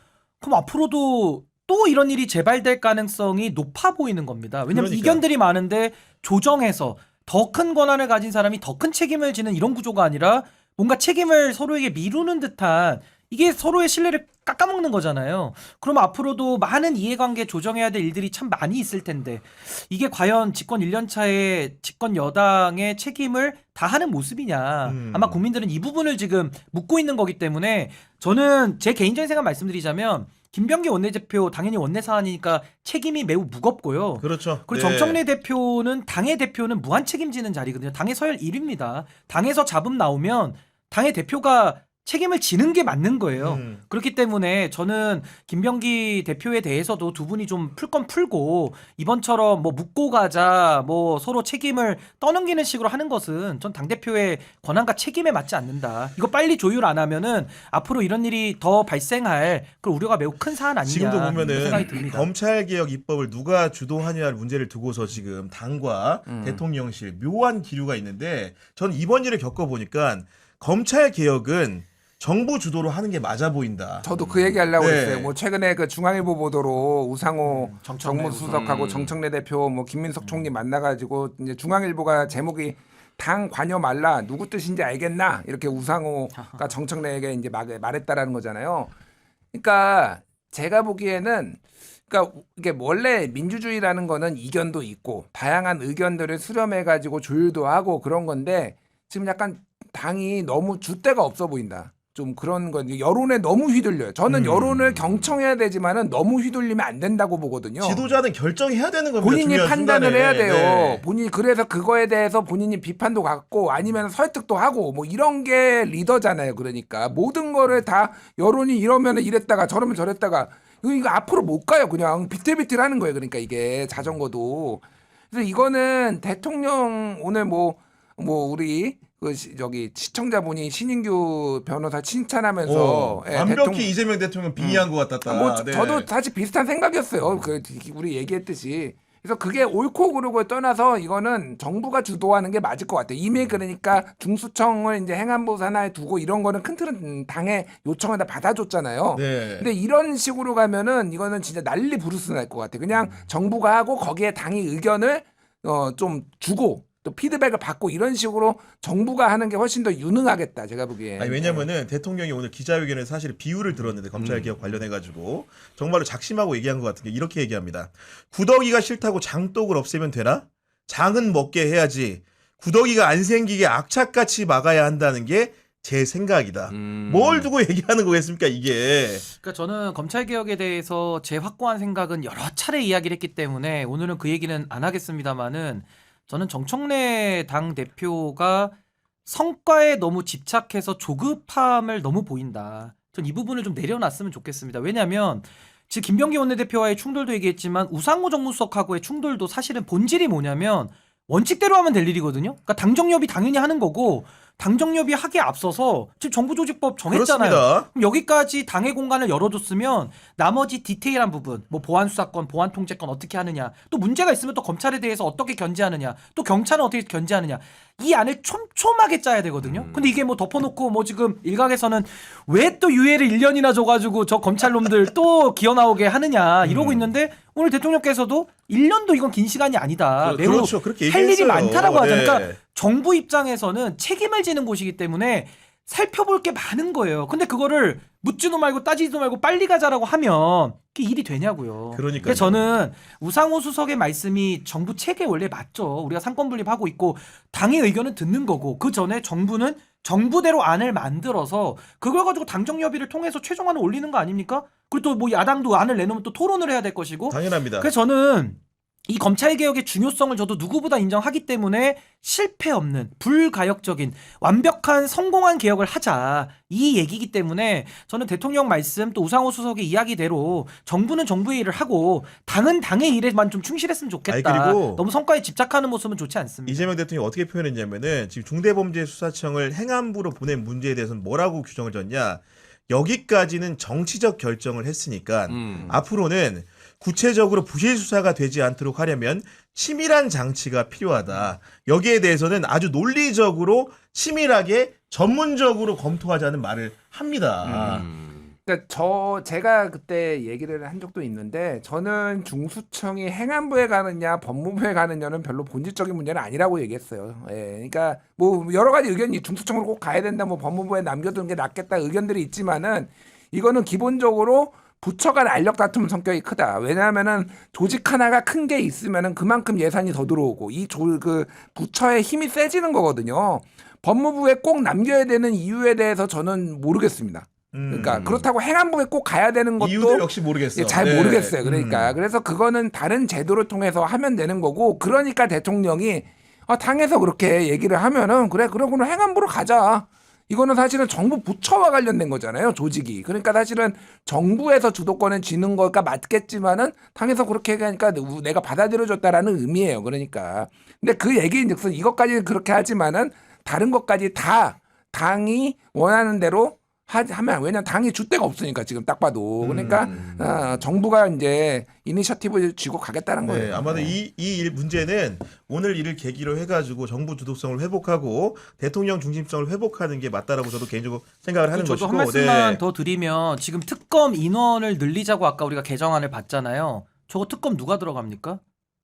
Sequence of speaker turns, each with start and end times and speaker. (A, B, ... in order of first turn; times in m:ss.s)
0:00.4-1:02.3 A
0:04.7-0:05.2 B
0:24.8-0:25.4 B
0:34.2-0:35.2 B
0:43.4-0:43.8 B
1:00.8-1:14.1 B
1:01.4-1:01.9 C
1:06.3-1:06.6 C
1:14.0-1:28.9 C
1:14.2-1:14.6 D
1:14.8-1:15.3 B
1:17.5-1:18.8 A
1:18.5-1:19.1 D
1:20.2-1:20.5 A
1:29.5-1:48.0 C
1:44.3-1:44.8 B
1:47.8-1:51.0 B
1:49.2-2:14.0 C
2:12.6-2:16.1 B
2:14.6-2:41.7 C
2:29.2-2:29.7 B
2:41.2-2:59.3 B
2:44.2-2:44.5 D
2:56.7-2:57.5 D
2:59.4-3:08.7 A
3:09.3-4:36.9 A
3:27.1-3:27.9 B
3:39.6-3:40.1 D
3:46.6-3:47.0 B
3:50.2-3:52.6 B
4:01.9-4:02.6 B
4:17.3-4:17.9 B
4:34.3-4:35.0 B
4:36.7-4:58.0 B
4:45.5-4:46.0 D
4:57.6-4:58.0 C
4:57.7-4:58.5 D
4:58.6-6:04.2 C
5:27.7-5:28.4 B
5:29.8-5:32.2 B
5:59.6-6:00.3 B
6:03.4-6:12.8 B
6:11.7-6:18.6 A